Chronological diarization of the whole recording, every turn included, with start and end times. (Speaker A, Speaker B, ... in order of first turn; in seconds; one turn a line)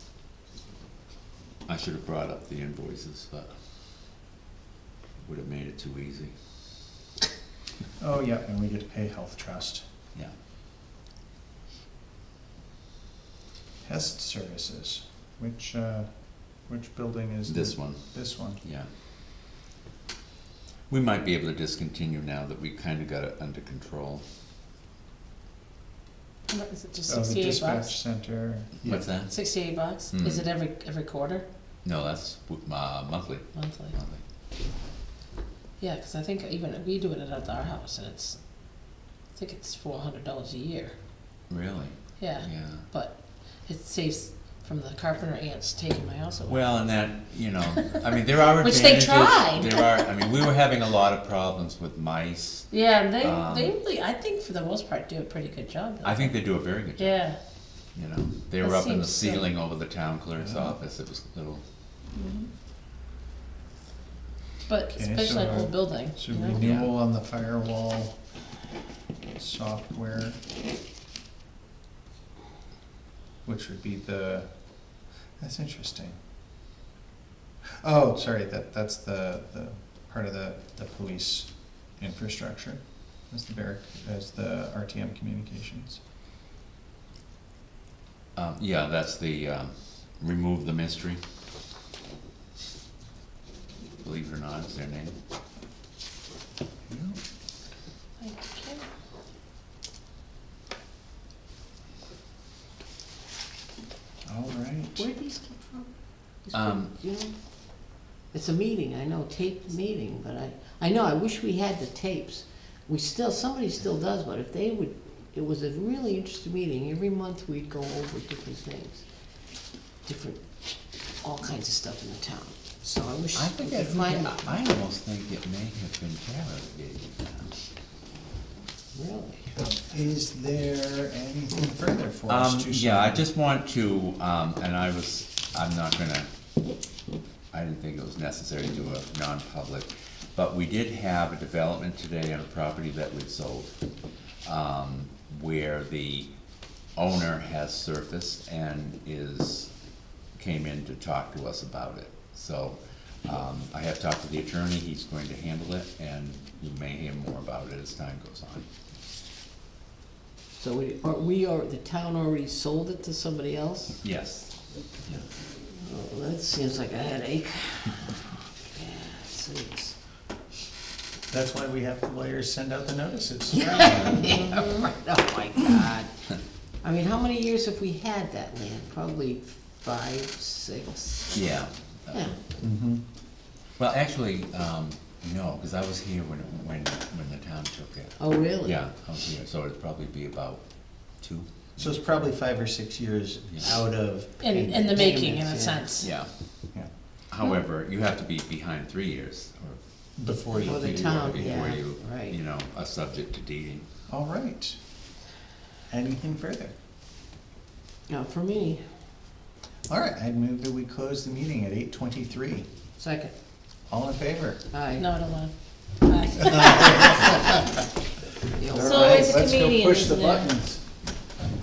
Speaker A: 1.7-3.6
Speaker A: 5.2-6.3
Speaker B: 8.0-9.8
Speaker B: 13.8-18.6
Speaker A: 17.5-18.9
Speaker A: 20.9-24.2
Speaker C: 26.5-27.9
Speaker B: 27.1-29.1
Speaker A: 28.8-29.4
Speaker C: 29.3-31.4
Speaker A: 30.1-30.5
Speaker A: 31.8-34.2
Speaker C: 33.5-33.9
Speaker C: 35.8-38.4
Speaker C: 39.4-41.0
Speaker A: 41.5-42.9
Speaker C: 42.2-46.6
Speaker A: 46.5-53.8
Speaker C: 48.5-49.9
Speaker C: 52.7-56.3
Speaker A: 56.0-57.3
Speaker C: 57.0-57.4
Speaker A: 57.9-61.6
Speaker C: 58.6-59.5
Speaker B: 60.4-60.8
Speaker C: 64.7-66.7
Speaker B: 64.9-68.2
Speaker A: 66.6-66.9
Speaker B: 69.4-70.4
Speaker B: 73.4-76.2
Speaker B: 77.8-86.0
Speaker A: 88.4-91.2
Speaker A: 94.0-95.2
Speaker B: 96.9-97.2
Speaker C: 98.2-98.8
Speaker B: 104.2-105.1
Speaker D: 105.0-119.1
Speaker A: 106.5-106.9
Speaker D: 119.7-124.6
Speaker A: 123.3-127.5
Speaker D: 128.9-129.6
Speaker B: 129.7-133.2
Speaker A: 132.3-136.3
Speaker A: 137.5-143.8
Speaker A: 144.4-146.3
Speaker A: 146.9-149.7
Speaker A: 150.4-158.7
Speaker D: 160.6-164.0
Speaker A: 164.0-165.3
Speaker D: 165.7-170.0
Speaker B: 171.3-174.5
Speaker D: 173.5-176.1
Speaker D: 176.8-181.5
Speaker A: 181.3-182.4
Speaker D: 182.1-182.4
Speaker B: 182.6-183.0
Speaker A: 183.8-192.1
Speaker D: 188.2-188.8
Speaker B: 191.8-195.2
Speaker C: 194.4-196.1
Speaker D: 194.9-196.0
Speaker A: 196.0-196.3
Speaker A: 197.3-203.8
Speaker B: 200.2-201.8
Speaker D: 200.7-202.4
Speaker B: 204.1-204.8
Speaker B: 205.9-206.8
Speaker D: 208.1-208.8
Speaker B: 209.9-212.7
Speaker D: 213.0-213.3
Speaker B: 213.9-214.6
Speaker D: 214.7-215.1
Speaker C: 215.0-217.2
Speaker B: 216.6-217.2
Speaker D: 216.8-217.3
Speaker D: 218.5-219.4
Speaker B: 218.7-220.8
Speaker C: 218.8-220.5